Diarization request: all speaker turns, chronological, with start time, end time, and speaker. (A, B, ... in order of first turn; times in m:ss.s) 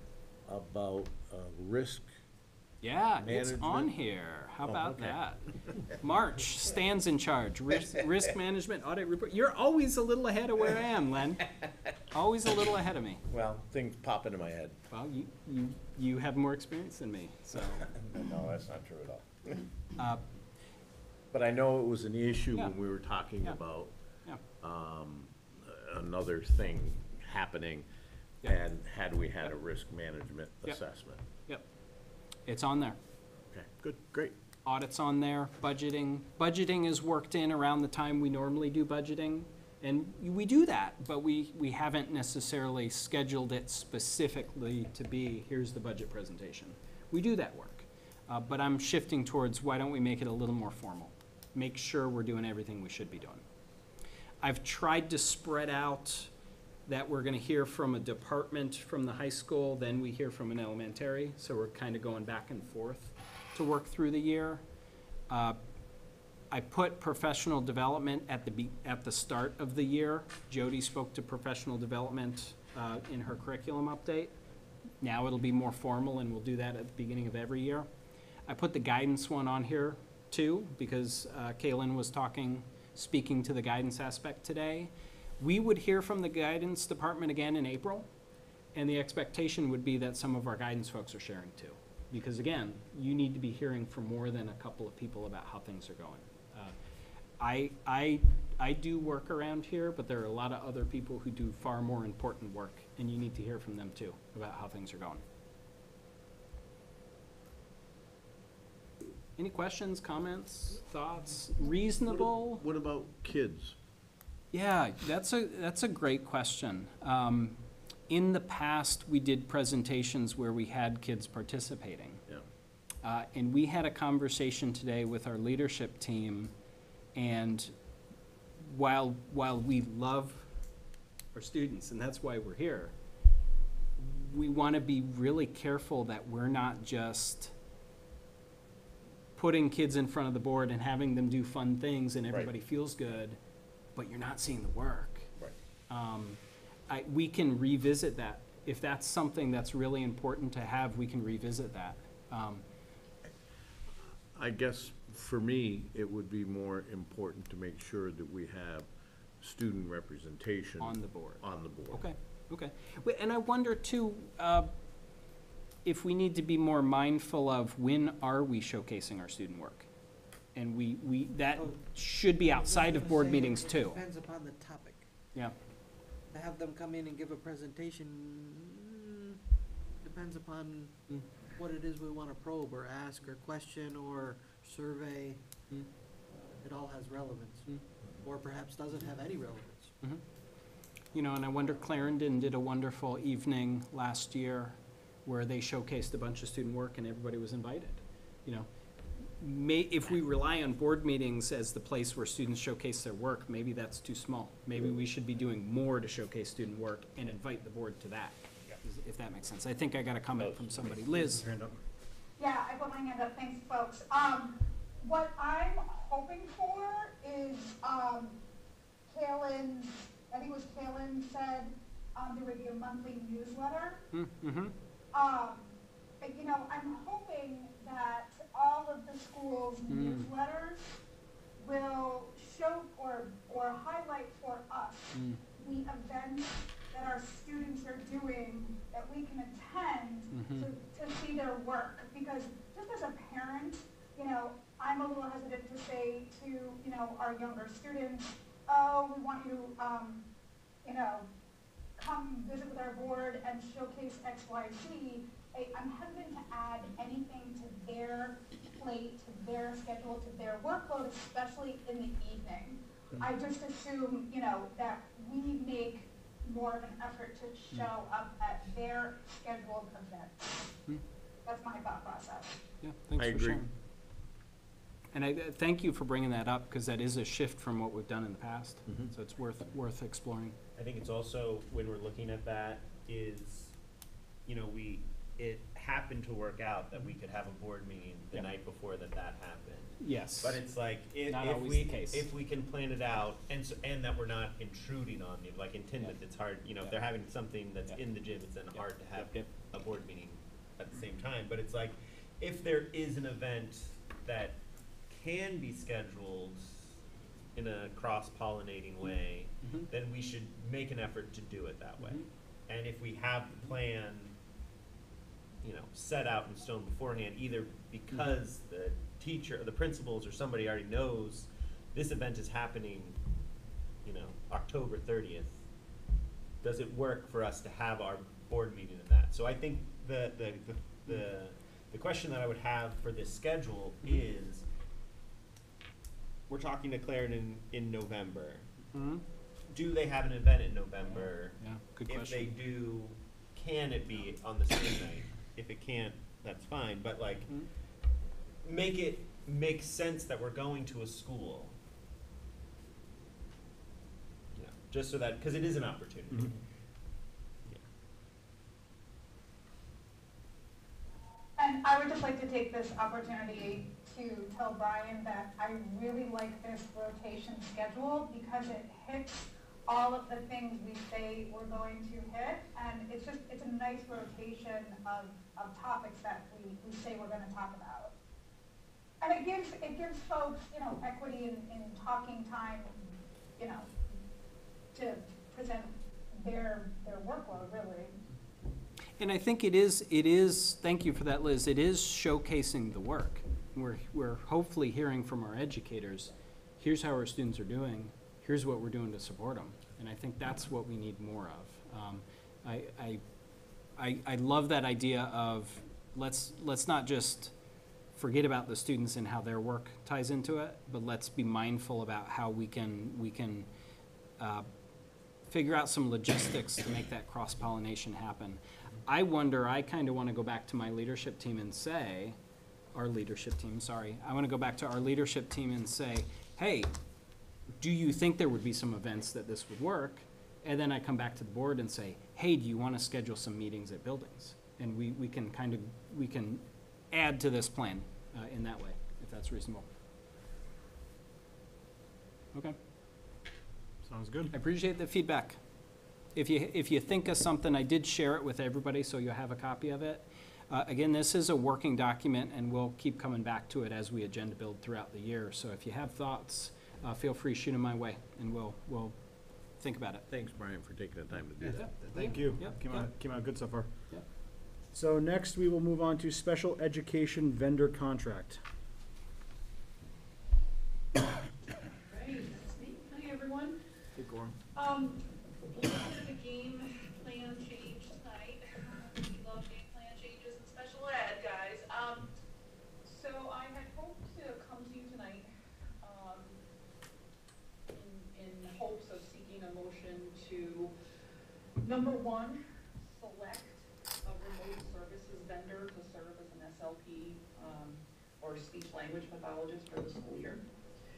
0:00.4-0:02.1 A
0:02.8-0:11.5 B
0:03.2-0:03.9 A
0:04.6-0:05.2 A
0:12.1-0:13.2 B
0:13.3-0:14.8 A
0:14.9-0:17.9 B
0:17.9-0:19.5 A
0:20.0-0:20.2 B
0:21.3-0:23.9 A
0:24.6-0:27.8 A
0:28.4-0:31.2 A
0:32.4-0:33.0 B
0:33.5-0:34.3 A
0:34.6-0:53.4 B
0:54.4-0:56.3 B
0:56.8-1:04.6 B
1:05.3-1:05.6 B
1:06.5-1:14.3 B
1:15.0-1:17.9 B
1:18.4-1:28.1 B
1:28.7-1:36.7 B
1:37.4-1:45.2 B
1:49.4-1:52.6 B
1:52.0-1:53.8 A
1:54.5-1:57.6 B
1:58.1-2:02.2 B
2:03.0-2:06.5 B
2:07.1-2:07.7 B
2:08.6-2:10.5 B
2:11.3-2:12.9 B
2:14.0-2:17.5 B
2:19.4-2:23.4 B
2:23.9-2:25.3 B
2:25.9-2:32.6 B
2:34.3-2:42.0 A
2:40.8-2:44.7 B
2:45.8-2:49.9 B
2:50.5-2:54.0 B
2:51.5-2:55.1 C
2:56.3-2:59.4 C
3:00.0-3:05.8 C
3:06.4-3:09.9 C
3:11.1-3:18.7 B
3:19.4-3:31.4 B
3:30.3-3:31.0 A
3:31.2-3:31.8 D
3:32.4-3:38.4 E
3:39.1-3:44.0 E
3:44.1-3:44.7 B
3:45.1-3:50.8 E
3:49.9-3:50.3 B
3:51.6-4:10.2 E
3:55.1-3:55.4 B
4:00.3-4:00.7 B
4:10.8-4:11.2 E
4:12.0-4:30.7 E
4:31.4-4:32.6 E
4:32.8-4:33.7 B
4:33.2-4:33.6 A
4:35.1-4:40.6 B
4:40.7-4:43.7 F
4:44.4-5:07.0 F
4:50.0-4:50.6 B
4:51.2-4:52.2 B
4:58.7-4:59.5 B
5:07.5-5:14.3 F
5:12.0-5:12.2 B
5:15.6-5:23.2 F
5:24.0-5:25.6 F
5:26.6-5:34.6 F
5:36.5-5:38.7 F
5:38.9-5:39.2 B
5:39.7-5:47.6 F
5:41.1-5:42.6 B
5:48.6-5:51.7 F
5:54.5-5:56.5 F
6:01.6-6:18.1 E
6:19.2-6:23.0 E
6:23.6-6:23.9 E
6:24.9-6:28.1 E
6:29.2-6:43.2 B
6:44.0-6:47.5 B
6:48.1-6:53.7 B
6:54.4-6:54.7 B
6:55.5-7:02.4 B
7:02.9-7:06.9 B
7:07.8-7:19.8 B
7:24.0-7:24.5 D
7:24.5-7:25.6 B
7:26.3-7:39.2 B
7:39.8-7:40.2 B
7:40.3-7:41.9 A
7:41.7-7:43.1 B
7:42.0-7:44.1 D
7:44.9-7:48.6 D
7:52.1-7:53.7 G
7:54.2-7:54.5 B
7:54.8-7:55.1 G
7:55.8-8:02.3 G
8:03.0-8:05.5 G
8:06.0-8:06.6 G
8:07.9-8:10.9 G
8:11.8-8:20.6 G